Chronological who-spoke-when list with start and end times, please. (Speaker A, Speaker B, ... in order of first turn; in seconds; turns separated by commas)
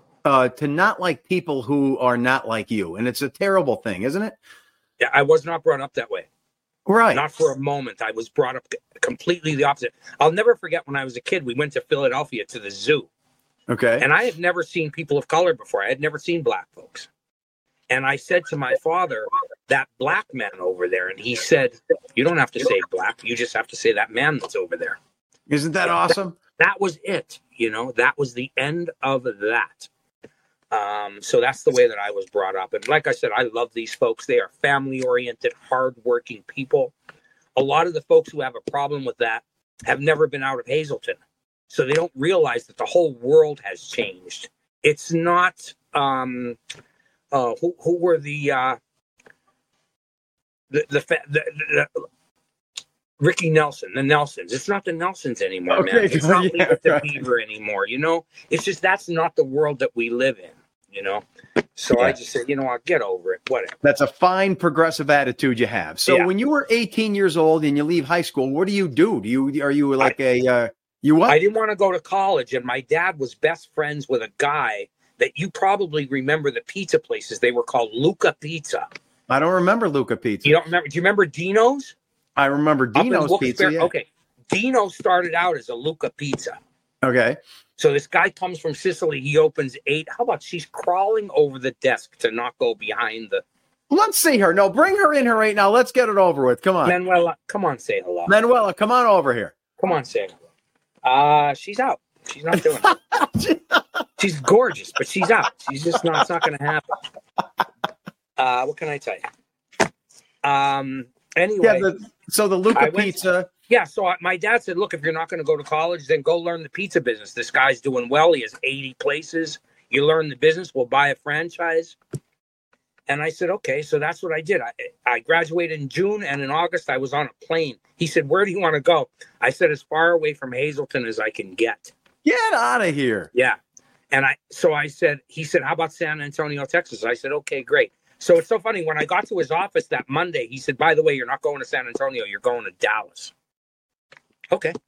Speaker A: 0.2-4.4, Speaker B: 5.0-6.3, Speaker A: 6.8-7.2, Speaker B: 7.1-13.1, Speaker A: 13.7-14.1, Speaker B: 14.0-17.1, Speaker B: 17.9-25.0, Speaker A: 25.5-26.4, Speaker B: 26.6-29.9, Speaker B: 30.7-36.9, Speaker B: 37.5-46.6, Speaker B: 47.3-48.8, Speaker B: 50.7-52.0, Speaker B: 53.2-61.2, Speaker A: 55.7-57.2, Speaker B: 61.8-63.7, Speaker A: 63.8-71.4, Speaker B: 71.3-78.9, Speaker A: 79.3-80.6, Speaker B: 80.4-81.9, Speaker A: 82.3-83.9, Speaker B: 82.9-86.6, Speaker A: 87.0-87.4, Speaker B: 87.8-93.4, Speaker A: 93.9-97.0, Speaker B: 96.8-98.3, Speaker A: 98.3-99.5, Speaker B: 99.8-100.3, Speaker B: 101.0-103.0, Speaker A: 102.6-103.8, Speaker B: 104.2-107.0, Speaker A: 106.0-106.2, Speaker B: 108.4-109.2, Speaker B: 110.4-111.9, Speaker A: 111.6-113.5, Speaker B: 112.7-113.2, Speaker B: 113.7-122.0, Speaker B: 123.1-131.9, Speaker A: 132.2-133.3, Speaker B: 134.1-143.3